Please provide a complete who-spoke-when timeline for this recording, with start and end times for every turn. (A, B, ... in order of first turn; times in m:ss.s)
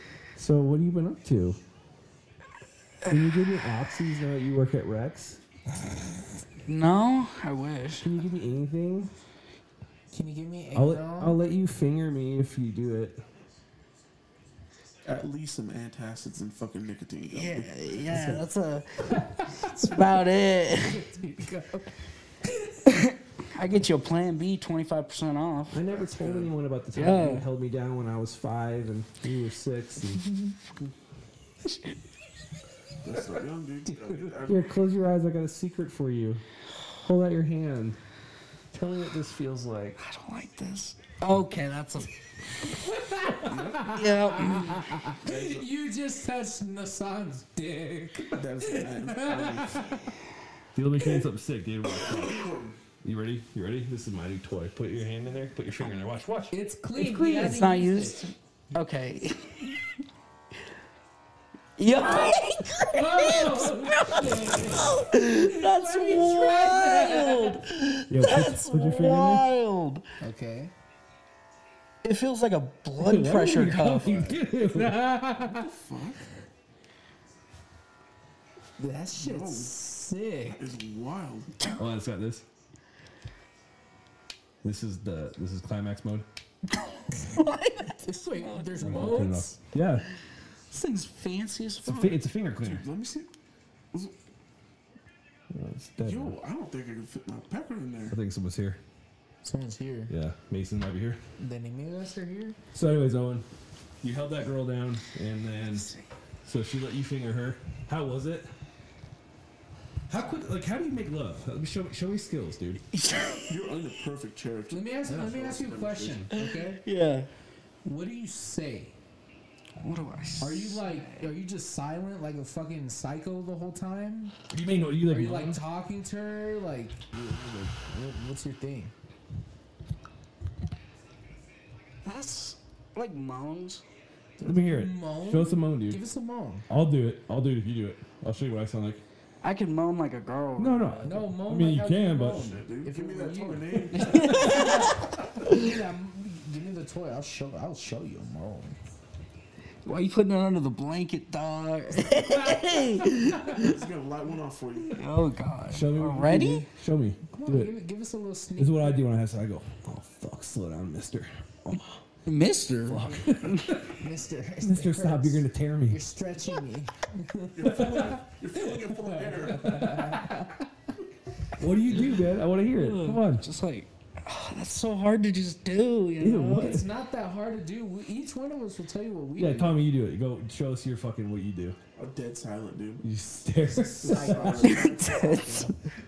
0:00.4-0:01.6 A
0:03.1-0:05.4 A
0:06.7-0:08.1 B
0:08.0-0:09.1 A
0:10.1-0:11.4 C
0:10.7-0:13.2 A
0:15.0-0:18.2 D
0:17.3-0:21.0 B
0:18.1-0:18.4 A
0:20.8-0:21.9 C
0:22.8-0:25.8 B
0:25.7-0:30.2 A
0:25.9-0:26.5 D
0:26.9-0:27.5 B
0:30.2-0:30.5 C
0:33.0-0:34.7 D
0:33.8-0:34.3 C
0:34.4-0:36.4 A
0:37.0-0:38.0 A
0:38.7-0:40.0 A
0:40.0-0:42.1 B
0:42.8-0:50.0 C
0:43.4-0:44.0 D
0:43.9-0:45.1 B
0:45.2-0:45.6 D
0:48.3-0:49.9 D
0:50.7-0:52.5 A
0:51.8-0:52.8 D
0:53.0-0:56.6 A
0:56.5-0:58.3 C
0:56.9-0:59.7 B
1:01.8-1:10.0 B
1:02.7-1:07.6 C
1:08.1-1:09.5 A
1:10.2-1:10.7 C
1:12.0-1:15.5 B
1:13.0-1:15.1 A
1:15.4-1:16.2 D
1:18.8-1:20.6 C
1:19.1-1:19.8 D
1:20.5-1:21.5 D
1:21.8-1:22.4 A
1:24.6-1:26.2 A
1:26.9-1:29.4 B
1:28.0-1:29.5 C
1:28.8-1:30.0 A
1:30.7-1:32.2 B
1:31.8-1:32.8 A
1:32.6-1:33.3 D
1:35.5-1:36.4 A
1:36.0-1:38.2 D
1:38.1-1:38.8 A
1:39.4-1:40.1 C
1:40.1-1:41.2 A
1:41.4-1:42.6 C
1:42.7-1:43.4 A
1:44.0-1:45.9 A
1:45.7-1:46.0 B
1:46.4-1:48.5 A
1:50.1-1:52.8 A
1:52.9-1:53.5 B
1:53.5-1:56.3 D
1:54.7-1:56.8 C
1:56.4-1:57.3 B
1:57.8-1:58.9 C
1:59.8-2:01.3 B
2:00.4-2:04.3 C
2:04.5-2:05.6 A
2:05.0-2:08.9 C
2:12.0-2:13.8 B
2:14.4-2:16.0 A
2:14.5-2:16.6 C
2:16.7-2:19.0 A
2:19.4-2:21.2 B
2:20.6-2:22.4 A
2:21.0-2:28.8 C
2:22.2-2:24.6 D
2:24.0-2:25.0 B
2:29.8-2:33.7 B
2:33.5-2:35.0 D
2:34.9-2:36.7 B
2:35.7-2:37.8 A
2:37.3-2:39.0 C
2:38.6-2:42.0 A
2:42.2-2:43.8 B
2:42.9-2:43.9 A
2:44.0-2:48.2 C
2:44.6-2:46.0 A
2:47.6-2:49.9 D
2:47.6-2:48.0 A
2:48.9-2:50.6 C
2:49.6-2:50.2 A
2:51.6-2:53.4 A
2:52.7-2:56.8 B
2:56.2-2:56.8 A
2:56.6-2:59.9 C
2:59.4-3:01.8 A
3:02.0-3:03.0 D
3:03.0-3:04.5 A
3:03.6-3:05.0 C
3:04.0-3:05.7 D
3:04.6-3:05.7 B